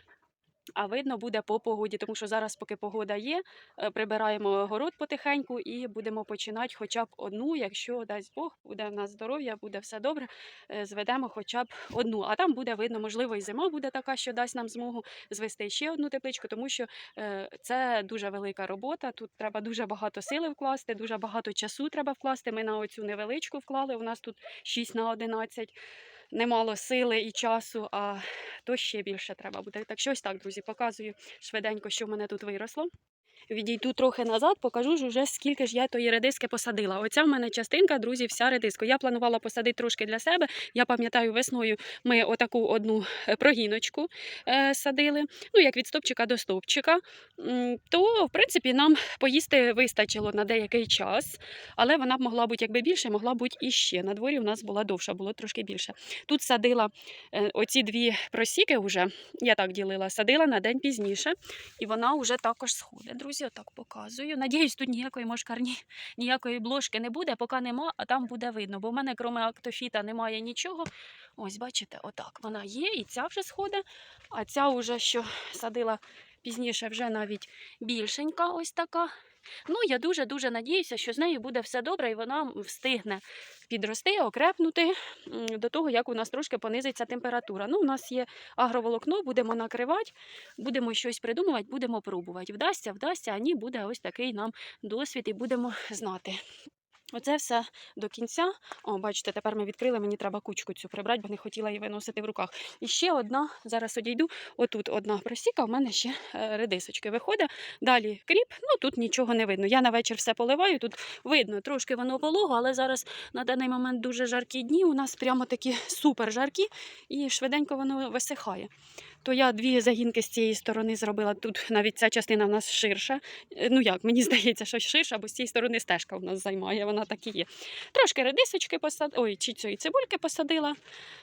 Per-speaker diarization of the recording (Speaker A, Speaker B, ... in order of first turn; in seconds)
Speaker A: 0.8-25.7, 26.3-32.9, 33.5-79.1, 79.7-96.4, 97.1-118.7, 119.2-130.8